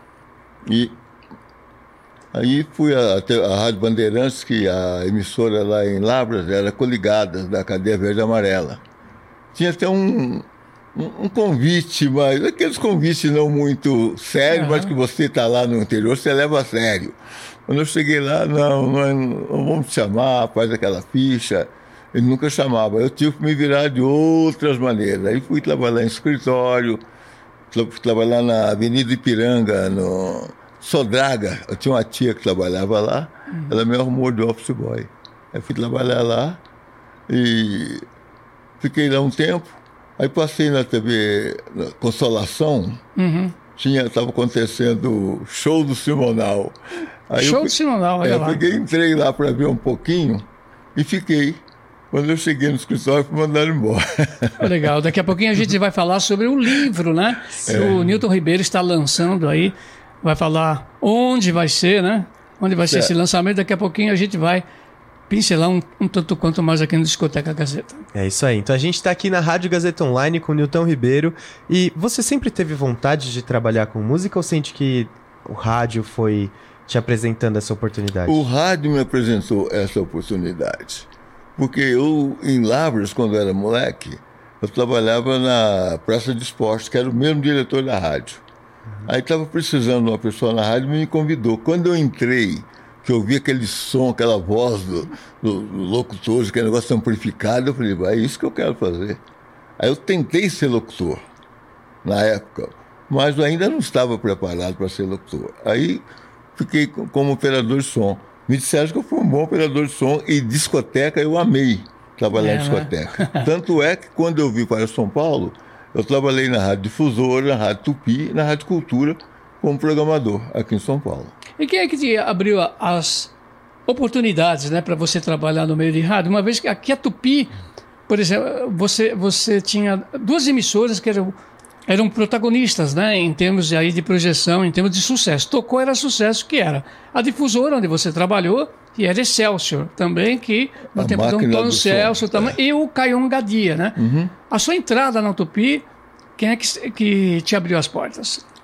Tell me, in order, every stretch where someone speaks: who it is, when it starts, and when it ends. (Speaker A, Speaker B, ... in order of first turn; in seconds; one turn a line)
Speaker A: 0.7-1.0
Speaker A: 2.3-8.8
Speaker A: 9.5-27.0
Speaker B: 14.5-14.9
Speaker A: 27.7-36.6
Speaker B: 33.5-33.8
Speaker A: 37.3-38.0
Speaker A: 38.8-43.0
Speaker B: 43.2-43.5
Speaker A: 43.8-54.9
Speaker B: 47.4-48.6
Speaker B: 54.6-64.7
Speaker A: 57.6-58.0
Speaker A: 62.8-63.1
Speaker B: 65.3-68.0
Speaker C: 68.1-78.4
Speaker A: 78.3-88.4
Speaker A: 89.1-99.2
Speaker A: 99.8-101.2
Speaker A: 102.0-121.3
Speaker B: 112.3-113.5
Speaker B: 121.6-123.3
Speaker B: 123.9-127.5
Speaker B: 128.1-131.3
Speaker B: 131.9-145.8
Speaker A: 140.9-142.6
Speaker A: 144.0-144.3
Speaker B: 146.4-148.4